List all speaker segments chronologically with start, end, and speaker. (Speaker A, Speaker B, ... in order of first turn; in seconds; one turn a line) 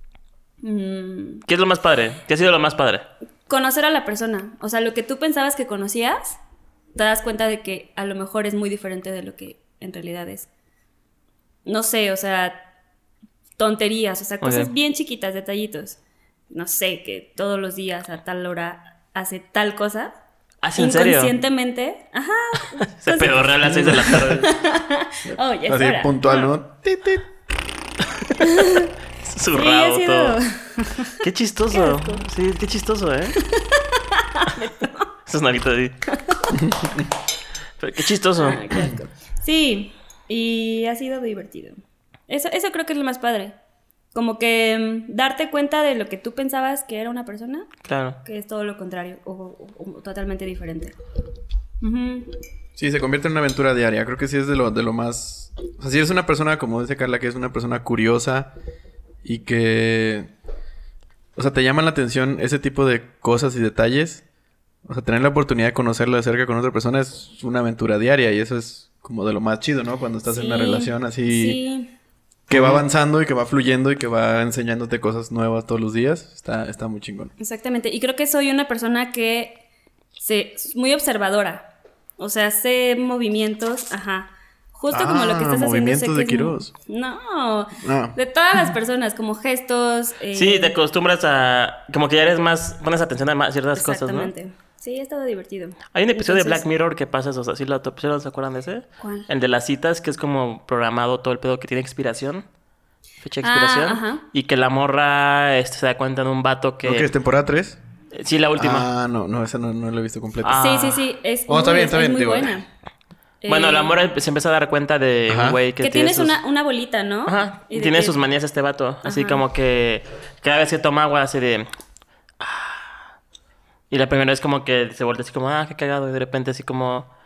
Speaker A: 0.6-1.4
Speaker B: 1.5-3.1
Speaker A: 3.5-6.4
Speaker A: 6.9-10.5
Speaker A: 11.7-12.6
Speaker A: 13.6-16.0
Speaker B: 14.4-14.7
Speaker A: 16.5-20.1
Speaker B: 20.6-21.3
Speaker A: 20.8-26.5
Speaker B: 22.9-24.5
Speaker C: 23.7-24.1
Speaker C: 25.7-27.2
Speaker B: 28.2-28.5
Speaker A: 28.4-28.9
Speaker B: 29.2-30.4
Speaker A: 29.5-31.1
Speaker B: 31.2-33.4
Speaker A: 31.7-32.2
Speaker A: 33.5-35.0
Speaker B: 35.2-35.9
Speaker C: 36.5-37.0
Speaker B: 37.8-38.6
Speaker A: 38.4-43.5
Speaker A: 44.1-50.9
Speaker B: 47.8-48.2
Speaker A: 51.8-52.3
Speaker C: 52.8-58.5
Speaker C: 59.2-60.3
Speaker C: 61.4-64.2
Speaker C: 64.8-71.6
Speaker A: 70.2-71.9
Speaker C: 72.5-77.3
Speaker B: 72.5-72.8
Speaker A: 77.4-79.6
Speaker A: 80.2-81.7
Speaker A: 82.2-90.7
Speaker C: 84.9-86.7
Speaker C: 87.8-88.2
Speaker B: 90.3-94.3
Speaker A: 93.7-96.6
Speaker B: 95.9-102.5
Speaker A: 99.0-99.3
Speaker B: 103.2-107.1
Speaker A: 103.4-104.2
Speaker C: 106.8-107.8
Speaker B: 108.1-108.9
Speaker C: 108.5-110.7
Speaker B: 110.4-111.0
Speaker A: 110.5-112.7
Speaker C: 111.5-112.6
Speaker A: 113.4-113.9
Speaker B: 113.5-116.4
Speaker C: 115.3-115.6
Speaker A: 115.8-118.2
Speaker B: 117.2-121.7
Speaker A: 119.0-119.4
Speaker B: 122.4-122.9
Speaker B: 123.9-127.1